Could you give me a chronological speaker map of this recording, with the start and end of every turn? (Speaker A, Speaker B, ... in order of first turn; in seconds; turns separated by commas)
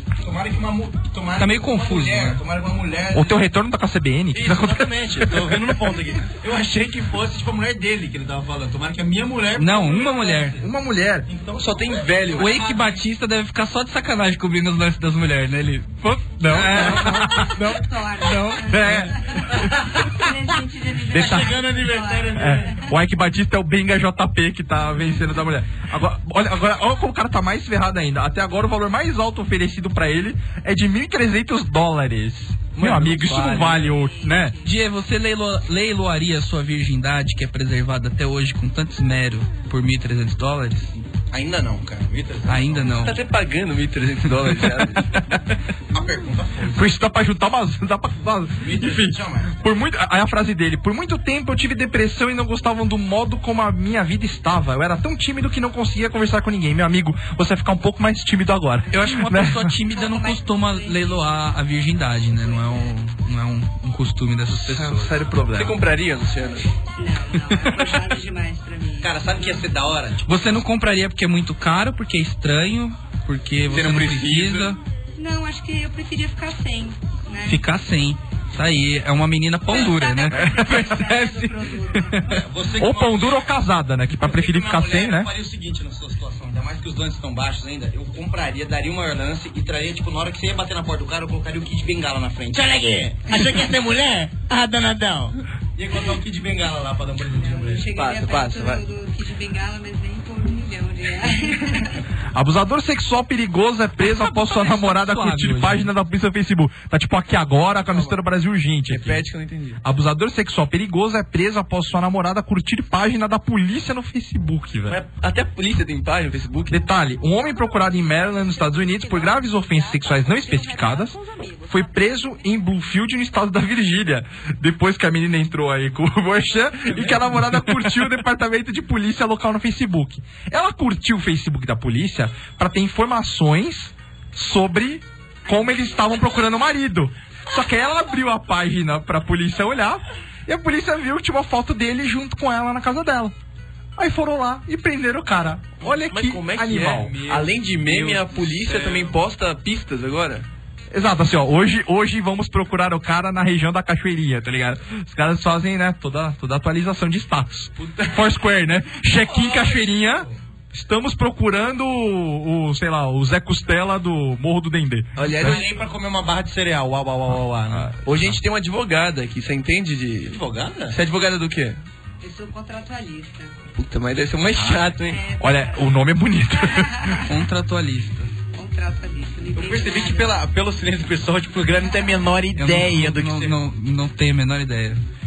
Speaker A: 0.2-3.4, Speaker B: 1.4-2.4, Speaker C: 3.1-5.8, Speaker A: 4.3-10.6, Speaker B: 9.6-10.6, Speaker C: 10.6-11.3, Speaker A: 11.3-13.0, Speaker D: 11.6-12.5, Speaker B: 12.4-17.6, Speaker C: 16.5-17.7, Speaker E: 16.8-22.8, Speaker B: 18.3-18.9, Speaker C: 18.6-19.6, Speaker A: 19.5-20.1, Speaker C: 21.1-21.6, Speaker A: 21.1-22.9, Speaker C: 22.4-34.6, Speaker D: 32.7-33.9, Speaker E: 33.8-34.7, Speaker B: 34.6-40.9, Speaker A: 40.9-43.1, Speaker B: 42.5-43.2, Speaker D: 42.9-45.2, Speaker A: 45.9-47.0, Speaker C: 46.7-59.8, Speaker A: 48.6-49.6, Speaker B: 58.9-65.2, Speaker E: 59.9-61.6, Speaker E: 62.3-63.0, Speaker C: 64.5-65.8, Speaker D: 65.5-66.7, Speaker E: 66.9-69.7, Speaker B: 67.6-67.9, Speaker A: 69.0-70.3, Speaker B: 70.2-74.8, Speaker A: 73.7-74.7, Speaker D: 73.8-74.6, Speaker E: 75.2-77.7, Speaker B: 77.5-82.4, Speaker E: 79.7-82.4, Speaker C: 80.3-80.9, Speaker A: 82.3-83.5, Speaker C: 82.8-85.3, Speaker A: 84.2-97.9, Speaker E: 97.4-102.0, Speaker D: 97.9-98.8, Speaker C: 102.3-109.2, Speaker B: 104.0-105.9, Speaker D: 107.8-108.2, Speaker D: 108.9-109.8, Speaker C: 109.8-115.0, Speaker D: 114.9-116.8, Speaker C: 116.7-121.2, Speaker E: 117.5-122.8, Speaker C: 121.7-143.3, Speaker E: 135.5-136.5, Speaker C: 144.0-147.2, Speaker D: 146.0-150.5, Speaker A: 146.9-149.2, Speaker C: 150.9-165.6, Speaker A: 157.8-158.3, Speaker A: 159.1-160.3, Speaker D: 165.2-165.7, Speaker A: 165.3-168.0, Speaker C: 167.7-168.3, Speaker D: 168.0-170.4, Speaker A: 170.3-171.0, Speaker D: 170.9-171.8, Speaker E: 172.2-173.6, Speaker D: 173.8-175.2, Speaker E: 175.0-176.0, Speaker C: 175.4-177.2, Speaker E: 176.6-177.3, Speaker B: 177.3-178.3, Speaker E: 178.5-180.4, Speaker A: 179.5-183.6, Speaker B: 182.6-185.0